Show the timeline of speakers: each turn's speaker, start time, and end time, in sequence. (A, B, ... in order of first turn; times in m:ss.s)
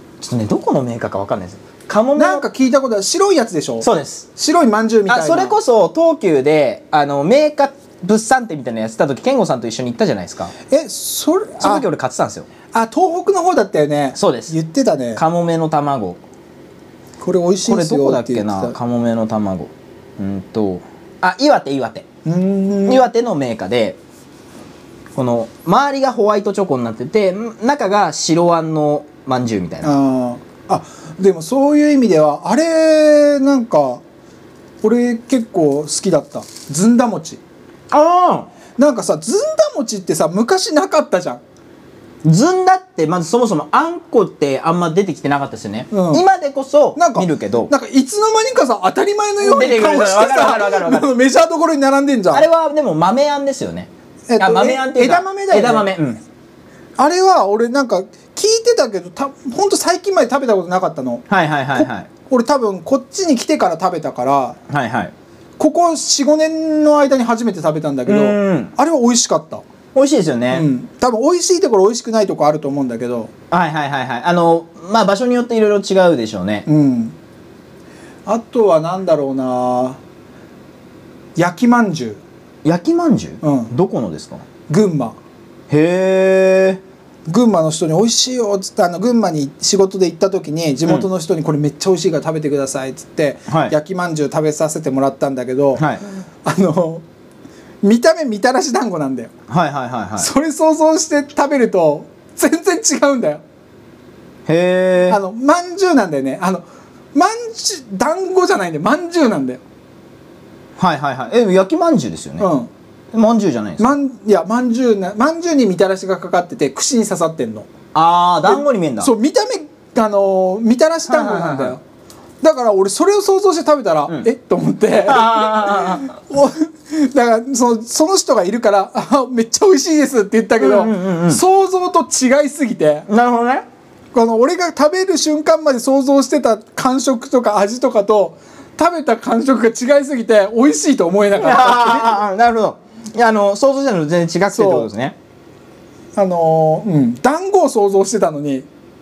0:00.2-0:02.4 A
0:02.2-0:05.6 B
0:03.8-0:04.2 A
0:05.1-0:10.5 A
0:10.7-0:11.8 B
0:11.6-0:12.5 A
0:12.7-0:15.2 B
0:14.2-0:14.5 A
0:15.1-0:16.2 A
0:17.2-0:18.7 B
0:17.6-0:22.0 A
0:22.2-0:23.0 B
0:22.8-0:24.0 A
0:25.2-0:29.9 A
0:29.8-0:34.0 B
0:34.8-0:37.4 B
0:37.9-0:38.5 A
0:38.8-0:41.4 B
0:42.2-0:47.7 A
0:45.9-0:46.2 B
0:47.0-0:52.4 B
0:49.4-0:51.1 A
0:52.3-0:56.2 A
0:54.3-0:55.9 B
0:57.0-1:04.6 B
1:01.3-1:02.1 A
1:04.7-1:05.1 A
1:05.6-1:09.6 B
1:08.0-1:08.7 A
1:09.9-1:10.6 A
1:10.5-1:13.3 B
1:13.5-1:16.6 A
1:16.6-1:17.1 B
1:18.2-1:20.0 B
1:21.4-1:22.2 B
1:22.6-1:24.4 A
1:23.4-1:23.7 B
1:24.7-1:25.2 B
1:25.7-1:26.8 A
1:27.3-1:35.8 B
1:33.5-1:33.7 A
1:35.8-1:36.0 A
1:36.4-1:37.0 B
1:37.8-1:39.3 B
1:39.5-1:40.3 A
1:40.2-1:43.4 B
1:44.5-1:45.2 A
1:45.1-1:49.6 B
1:50.8-1:52.5 A
1:52.4-1:52.7 B
1:53.1-1:53.9 A
1:53.8-1:57.7 B
1:57.9-1:59.1 A
1:58.5-2:01.8 B
2:01.1-2:01.8 A
2:02.4-2:13.1 B
2:05.0-2:06.1 A
2:10.6-2:11.4 A
2:13.1-2:13.6 A
2:14.1-2:22.2 B
2:21.4-2:25.1 A
2:24.5-2:24.9 B
2:26.1-2:28.7 B